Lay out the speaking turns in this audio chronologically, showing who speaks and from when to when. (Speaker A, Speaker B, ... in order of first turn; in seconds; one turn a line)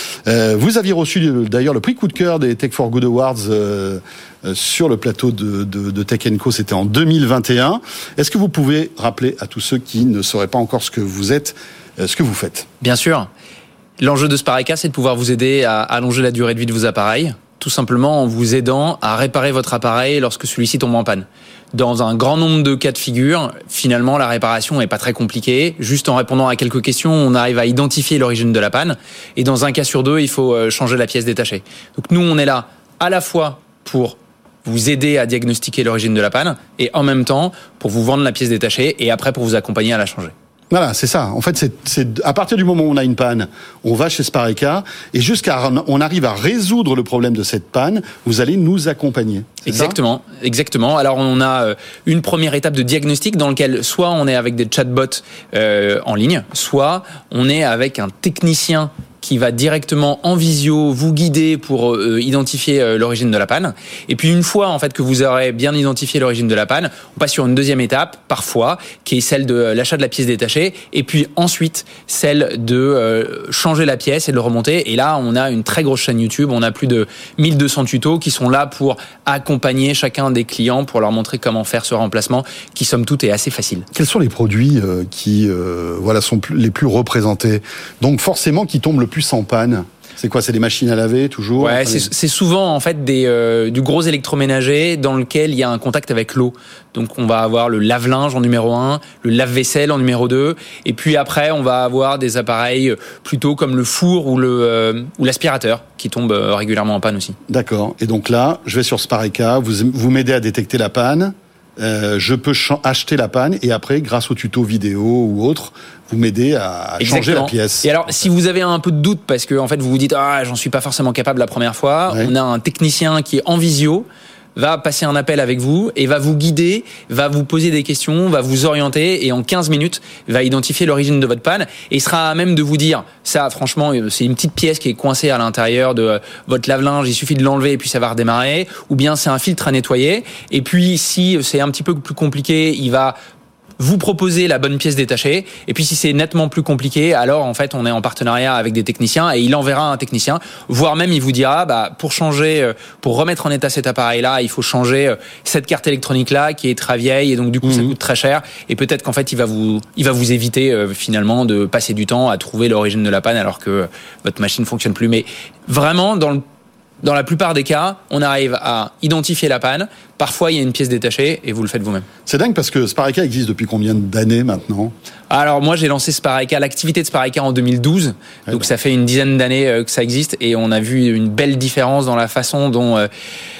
Speaker A: 0.2-12.7
Speaker B: 12.8-13.3
Speaker B: 14.0-40.3
Speaker A: 40.7-50.0
Speaker B: 49.6-83.9
Speaker A: 83.9-92.1
Speaker B: 91.6-107.4
Speaker A: 107.5-117.9
Speaker B: 117.0-143.1
Speaker B: 143.8-166.4
Speaker A: 157.6-157.9
Speaker B: 167.0-172.1
Speaker A: 172.2-174.9
Speaker B: 175.3-183.1